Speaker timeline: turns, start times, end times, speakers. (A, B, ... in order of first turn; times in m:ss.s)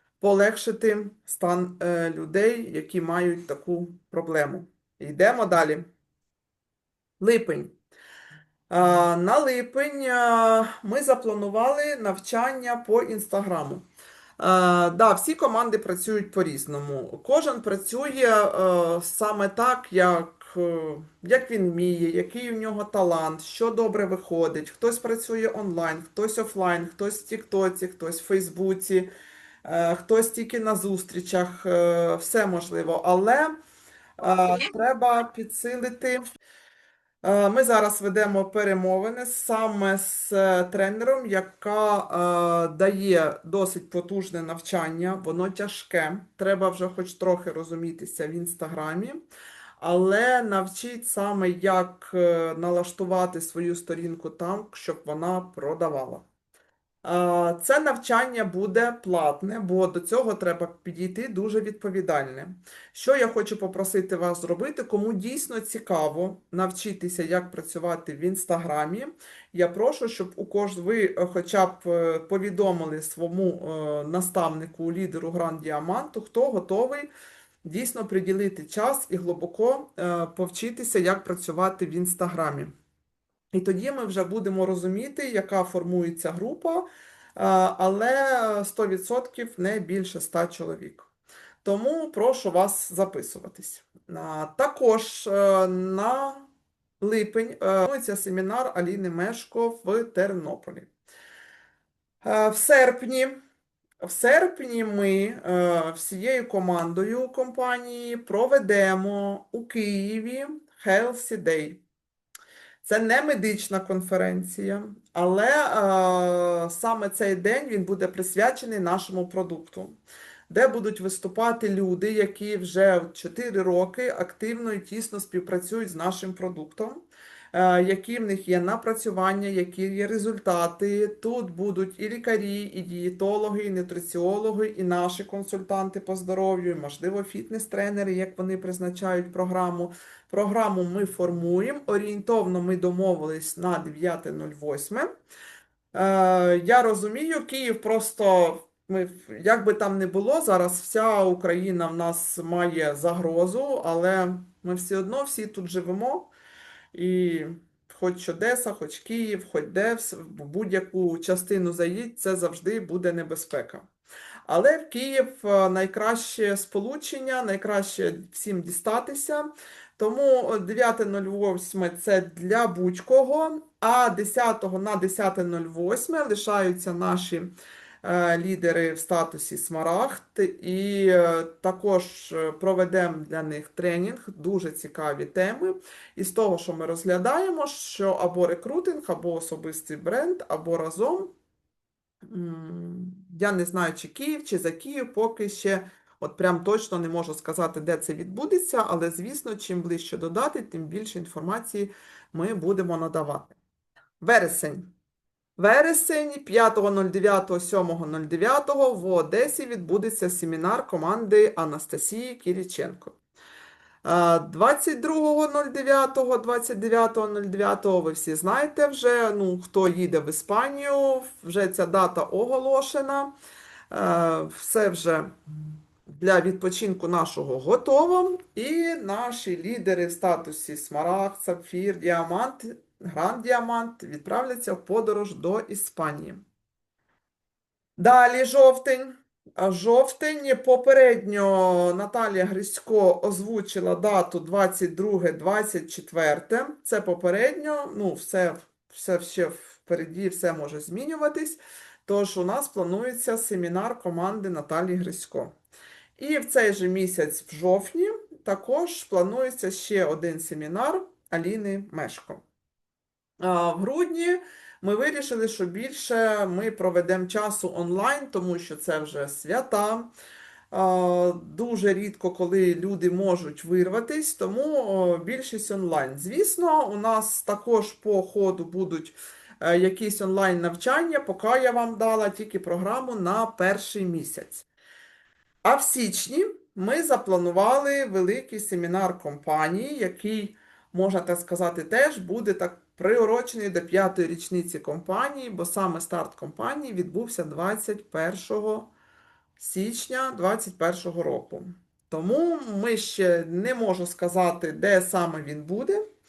0:00.2-0:05.8 A
0:07.2-0:07.7 A
0:08.7-0:13.8 A
0:14.4-0:29.1 A
0:29.6-0:33.5 A
0:34.2-0:36.2 A
0:37.2-0:49.2 A
0:49.8-0:56.2 A
0:57.0-1:17.1 A
1:17.6-1:22.7 A
1:23.5-1:31.1 A
1:31.6-1:36.5 A
1:37.0-1:40.9 A
1:42.2-1:43.4 A
1:44.0-1:51.8 A
1:52.8-1:59.9 A
2:00.5-2:25.1 A
2:25.9-2:36.3 A
2:36.9-2:43.8 A
2:44.5-2:57.5 A
2:58.0-3:11.3 A
3:12.3-3:23.6 A
3:24.2-3:24.9 A
3:25.6-3:33.1 A
3:34.0-3:43.3 A
3:43.9-3:45.3 A
3:46.1-3:56.4 A
3:58.0-4:15.5 A
4:16.2-4:22.4 A
4:23.4-4:30.1 A
4:30.7-4:44.6 A
4:45.6-4:58.9 A
4:59.6-5:06.0 A